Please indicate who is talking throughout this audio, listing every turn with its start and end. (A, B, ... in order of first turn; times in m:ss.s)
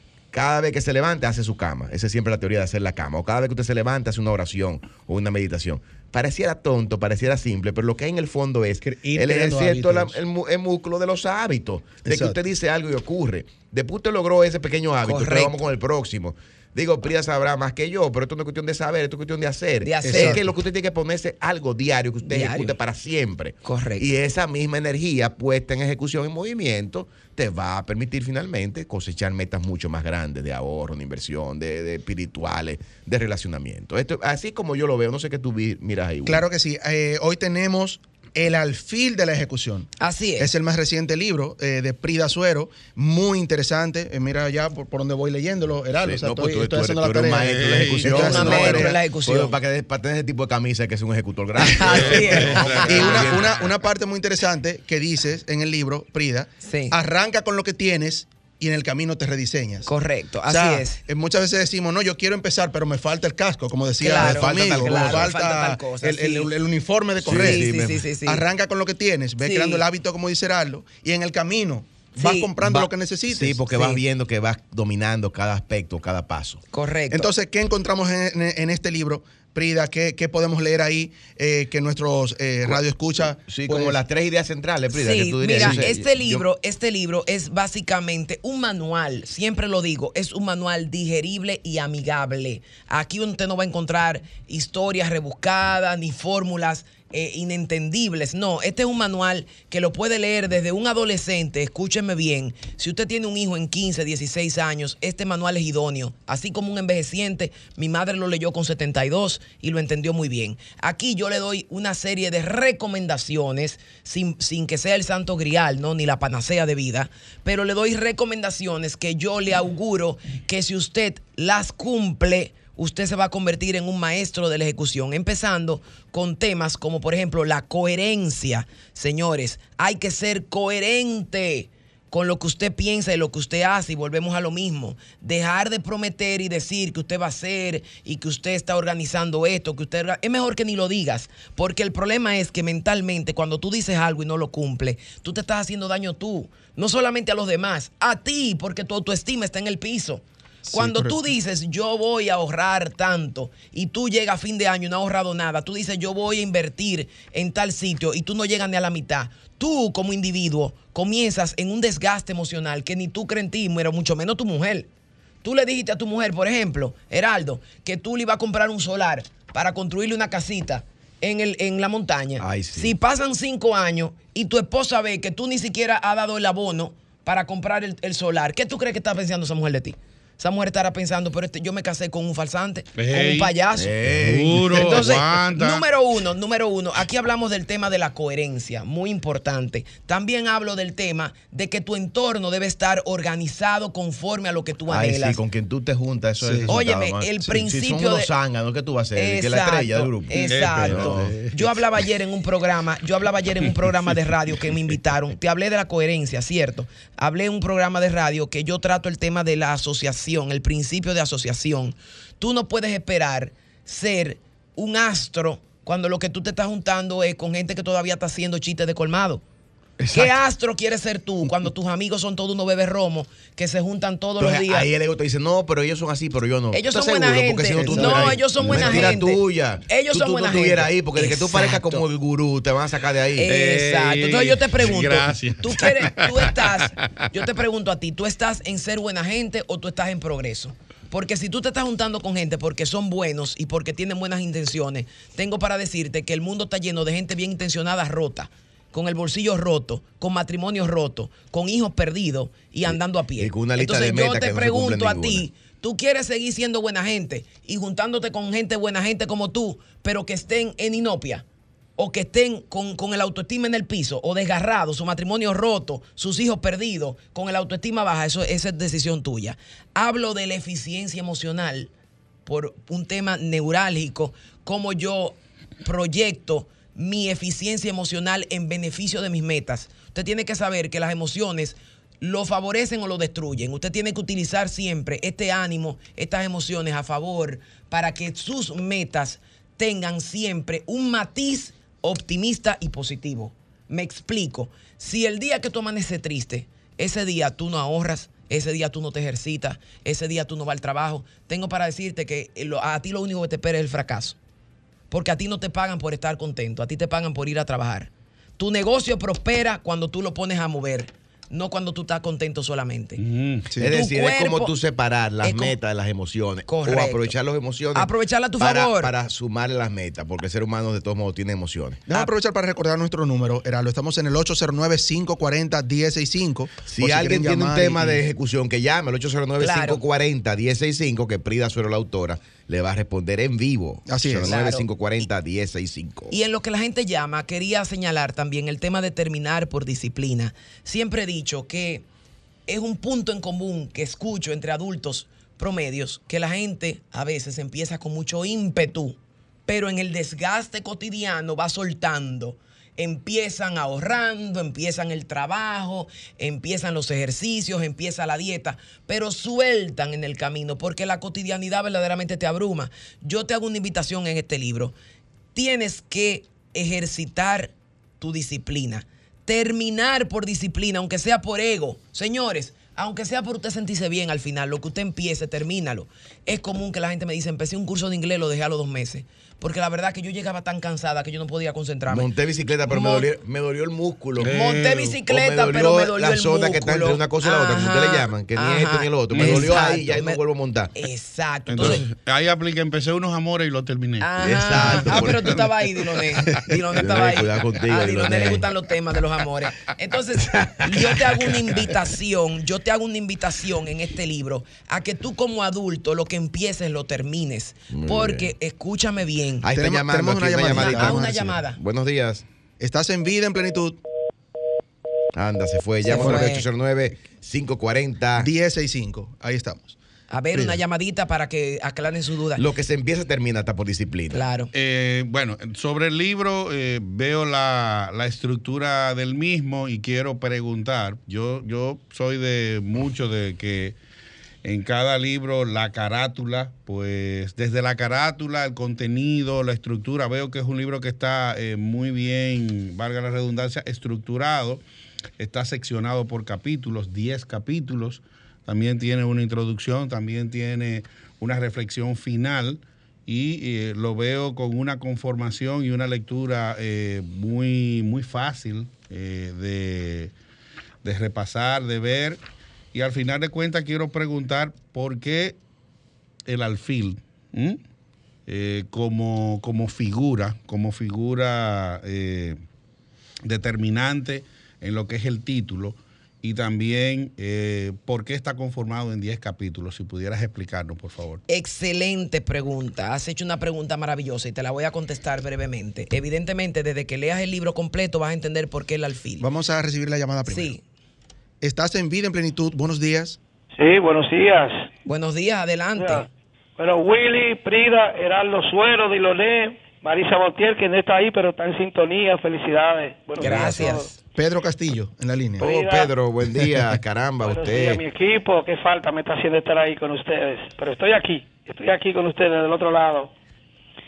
0:00.3-0:36.4 A
0:08.8-0:10.2 B
0:12.0-0:12.4 B
0:15.0-0:15.6 C
0:19.8-0:20.4 C
0:20.0-0:20.5 B
0:22.2-0:22.8 C
0:23.6-0:24.1 C
0:36.2-0:48.9 B
0:40.0-0:40.5 C
0:46.0-0:53.7 A
0:47.4-0:48.1 D
0:48.1-0:49.6 C
0:51.6-0:53.6 C
0:51.8-0:52.9 D
0:52.7-0:59.9 B
0:56.6-0:57.0 C
0:59.8-1:01.0 C
1:00.5-1:07.7 B
1:04.0-1:06.5 C
1:04.1-1:05.3 A
1:07.2-1:08.1 A
1:07.3-1:08.4 C
1:08.2-1:13.6 B
1:09.4-1:09.8 C
1:12.2-1:12.5 C
1:12.6-1:16.6 A
1:13.7-1:14.0 C
1:16.7-1:17.3 C
1:17.1-1:24.0 B
1:23.5-1:26.4 A
1:24.9-2:44.9 C
2:30.6-2:31.2 B
2:45.4-3:04.0 C
2:52.4-2:52.9 A
3:03.0-3:03.5 D
3:03.8-3:05.2 A
3:04.2-3:05.8 D
3:04.7-3:15.4 C
3:14.9-3:21.4 A
3:16.4-3:16.7 B
3:16.7-3:18.3 C
3:19.1-3:39.4 C
3:20.4-3:21.7 D
3:40.0-3:40.4 A
3:40.1-3:44.9 C
3:44.4-3:53.5 A
3:46.7-3:52.0 C
3:47.8-3:49.0 B
3:53.4-4:21.4 C
3:53.4-3:57.2 D
4:12.8-4:15.4 A
4:22.0-4:31.9 C
4:32.4-5:04.4 C
5:05.1-5:13.2 C
5:13.2-5:13.7 D
5:13.8-5:22.0 A
5:13.8-5:14.7 C
5:15.4-5:15.8 C
5:16.7-5:17.3 C
5:17.9-5:19.1 C
5:22.1-5:28.2 B
5:26.8-5:36.3 A
5:29.6-5:30.0 C
5:34.1-5:34.5 B
5:34.5-5:34.9 C
5:36.3-5:42.0 C
5:42.7-6:04.9 C
6:05.5-6:22.3 C
6:22.1-6:24.6 A
6:22.8-6:23.3 C
6:24.4-6:25.2 D
6:24.4-6:30.4 C
6:25.3-6:30.9 A
6:29.3-6:29.7 D
6:30.9-6:32.0 C
6:31.7-6:36.6 D
6:34.2-6:49.7 C
6:34.4-6:35.7 A
6:36.7-6:38.7 A
6:40.4-6:41.9 A
6:47.9-6:48.5 A
6:49.6-6:52.4 A
6:49.7-6:51.5 B
6:50.7-6:51.8 C
6:52.8-6:54.0 B
6:55.3-6:58.5 A
6:56.0-6:56.7 C
6:56.2-6:56.5 B
6:58.4-7:00.0 B
7:00.3-7:02.6 C
7:00.5-7:00.8 B
7:02.5-7:04.4 A
7:04.3-7:04.7 C
7:04.7-7:14.0 D
7:14.6-7:24.8 D
7:25.4-7:40.3 D
7:41.0-7:42.4 D
7:42.9-7:45.6 D
7:46.5-7:47.8 D
7:48.5-7:52.6 D
7:53.4-8:01.4 D
8:01.5-8:09.4 C
8:09.4-8:10.7 B
8:10.4-8:10.8 C
8:11.6-8:13.4 B
8:13.8-8:14.9 E
8:15.0-8:16.3 C
8:16.0-8:24.1 E
8:23.4-8:24.1 C
8:23.4-8:24.0 A
8:24.3-8:25.6 B
8:25.6-8:26.1 E
8:25.6-8:28.0 A
8:27.4-8:33.3 E